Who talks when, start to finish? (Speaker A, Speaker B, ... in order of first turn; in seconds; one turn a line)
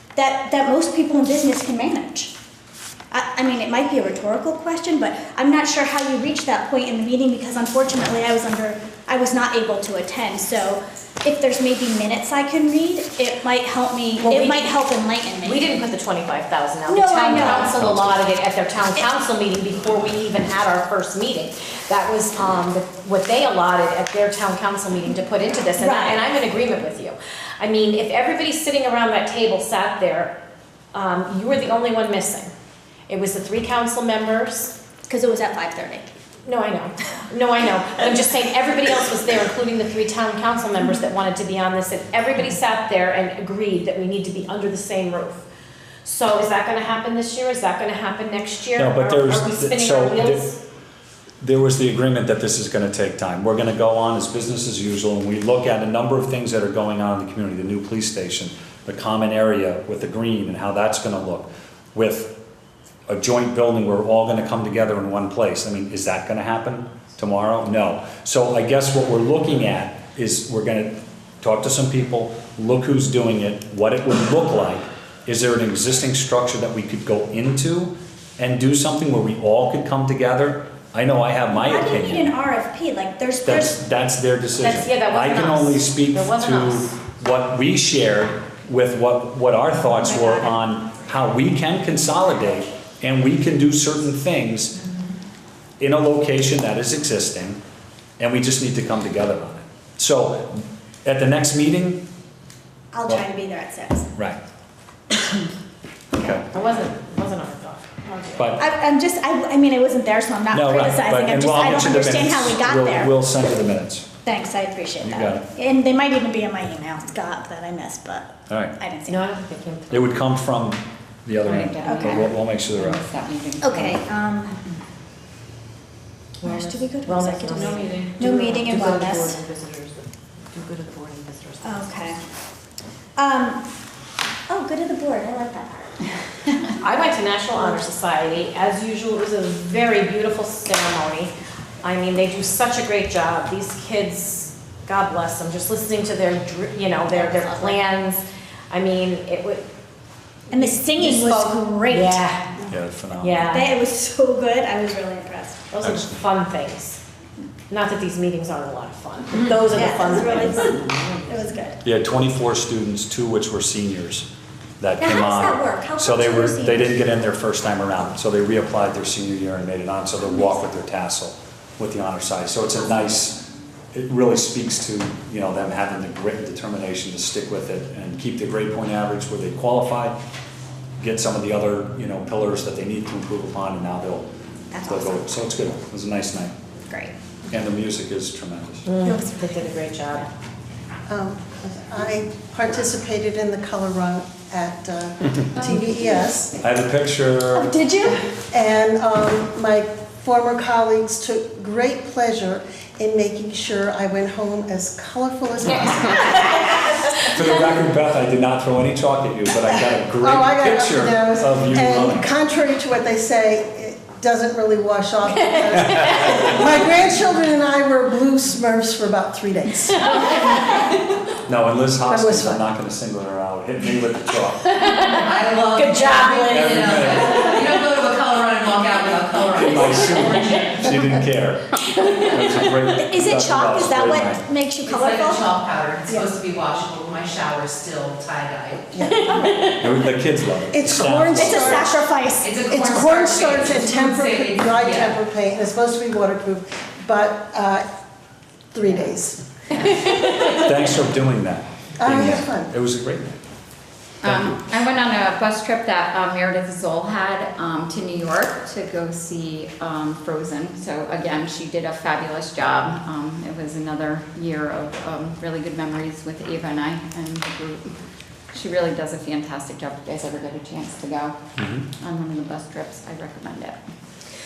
Speaker A: 0.1-2.3
Speaker A: 3.1-15.7
Speaker B: 14.2-14.7
Speaker B: 15.4-30.4
Speaker A: 16.9-17.7
Speaker C: 17.3-18.2
Speaker A: 25.8-26.3
Speaker B: 30.9-32.5
Speaker B: 33.1-34.7
Speaker A: 35.1-36.1
Speaker B: 36.4-45.5
Speaker B: 46.0-50.6
Speaker C: 48.7-50.5
Speaker C: 51.4-62.4
Speaker C: 63.1-82.3
Speaker A: 81.5-83.7
Speaker C: 83.5-94.8
Speaker B: 84.6-87.0
Speaker A: 90.1-90.5
Speaker C: 95.8-97.6
Speaker C: 98.2-102.0
Speaker A: 102.9-104.1
Speaker C: 106.1-106.5
Speaker B: 106.5-108.5
Speaker C: 108.3-108.6
Speaker A: 108.6-113.1
Speaker C: 110.5-114.1
Speaker A: 114.2-119.2
Speaker C: 115.0-115.4
Speaker C: 118.5-118.7
Speaker B: 119.1-120.2
Speaker C: 119.9-123.0
Speaker D: 121.4-124.0
Speaker A: 121.8-122.2
Speaker A: 123.6-124.6
Speaker B: 126.4-130.0
Speaker A: 126.4-129.4
Speaker E: 127.7-128.0
Speaker B: 130.5-132.1
Speaker A: 131.6-132.2
Speaker A: 133.2-133.6
Speaker A: 134.5-136.0
Speaker B: 136.8-149.7
Speaker A: 147.1-147.8
Speaker A: 150.5-152.2
Speaker B: 150.5-152.5
Speaker C: 152.7-153.6
Speaker B: 153.2-153.7
Speaker A: 153.5-155.6
Speaker B: 155.7-157.0
Speaker C: 155.8-156.2
Speaker B: 157.7-160.9
Speaker A: 159.7-161.8
Speaker C: 161.8-164.3
Speaker C: 164.8-180.2
Speaker A: 165.0-167.0
Speaker C: 181.0-184.3
Speaker A: 184.7-185.3
Speaker C: 184.8-186.5
Speaker C: 187.5-188.8
Speaker B: 188.8-190.3
Speaker F: 191.1-196.5
Speaker C: 196.6-197.7
Speaker A: 197.5-198.2
Speaker F: 198.5-207.3
Speaker C: 207.3-212.3
Speaker F: 210.2-220.6
Speaker C: 215.8-216.5
Speaker B: 215.9-216.3
Speaker C: 221.4-225.0
Speaker F: 222.1-222.6
Speaker B: 224.8-227.8
Speaker E: 225.4-230.4
Speaker C: 226.2-227.5
Speaker C: 229.6-234.4
Speaker A: 232.8-235.6
Speaker E: 234.9-238.8
Speaker F: 238.9-239.3
Speaker A: 239.2-239.8
Speaker C: 239.7-241.8
Speaker F: 240.7-242.0
Speaker A: 241.2-242.6
Speaker E: 242.4-245.1
Speaker F: 242.7-247.8
Speaker F: 248.7-249.9
Speaker C: 250.4-253.4
Speaker F: 252.0-252.7
Speaker C: 254.2-254.6
Speaker D: 254.2-267.8
Speaker D: 268.5-271.4
Speaker C: 271.6-271.9
Speaker D: 272.0-273.8